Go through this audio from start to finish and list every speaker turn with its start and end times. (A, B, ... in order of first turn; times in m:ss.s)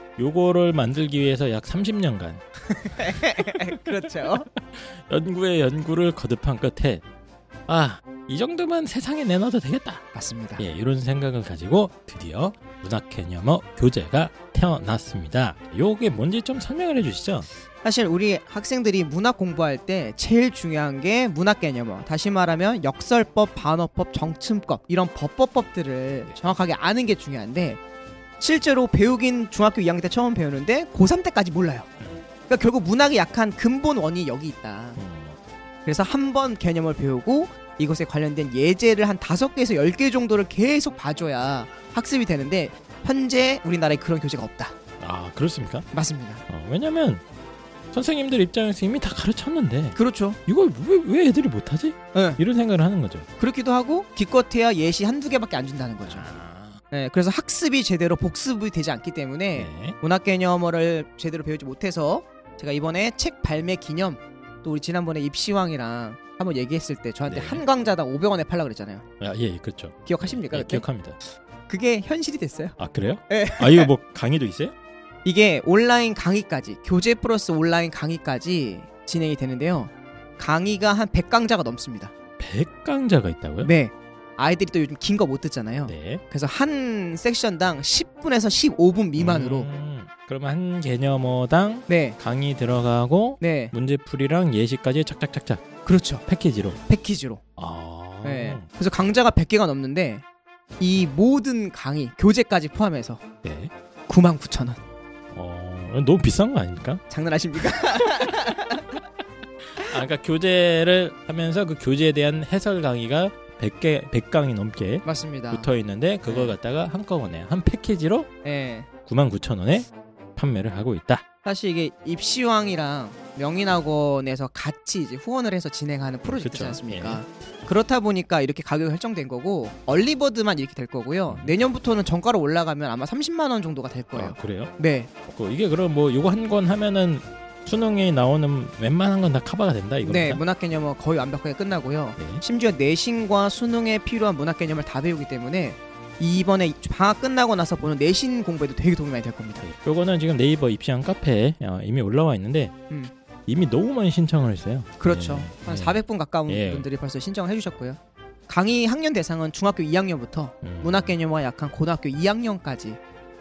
0:00.2-0:02.4 A
0:02.9-0:04.5 B
0:03.1-0:07.0 A
0:07.7-0:10.0 A
0:10.1-0:10.6 B
0:10.6-0:17.5 A
0:17.8-0:27.8 B
0:28.4-0:31.9 B
0:32.5-0:35.0 B
0:35.0-0:35.4 A
0:35.8-0:44.7 B
0:45.0-0:45.9 A
0:45.9-0:46.4 B
0:46.5-0:47.2 A
0:47.9-0:53.3 A
0:50.0-0:50.4 B
0:52.1-0:52.4 B
0:53.4-0:56.3 B
0:56.1-0:56.8 A
0:56.9-1:09.0 B
0:59.5-1:00.0 A
1:07.2-1:07.6 A
1:09.2-1:11.2 A
1:10.0-1:12.8 B
1:12.8-1:14.7 A
1:13.3-1:13.9 B
1:15.2-1:22.1 B
1:22.4-1:23.7 A
1:23.6-1:29.7 B
1:25.8-1:26.2 A
1:29.2-1:35.7 A
1:31.9-1:32.2 B
1:33.4-1:33.7 B
1:35.8-1:36.2 B
1:36.2-1:36.8 A
1:36.8-1:37.4 B
1:37.6-1:38.7 A
1:38.2-1:40.2 B
1:40.8-1:43.2 B
1:43.4-1:43.7 A
1:44.1-1:44.8 B
1:45.3-1:47.0 A
1:47.1-1:48.8 B
1:49.7-1:58.3 A
1:55.0-1:55.7 B
1:56.2-1:56.6 B
1:58.4-1:58.9 B
1:59.0-2:01.2 A
2:01.4-2:15.1 B
2:06.2-2:07.2 A
2:14.1-2:20.4 A
2:20.0-2:29.6 B
2:22.2-2:22.4 A
2:29.6-2:32.8 A
2:33.5-2:36.9 A
2:35.0-2:43.0 B
2:40.6-2:41.2 A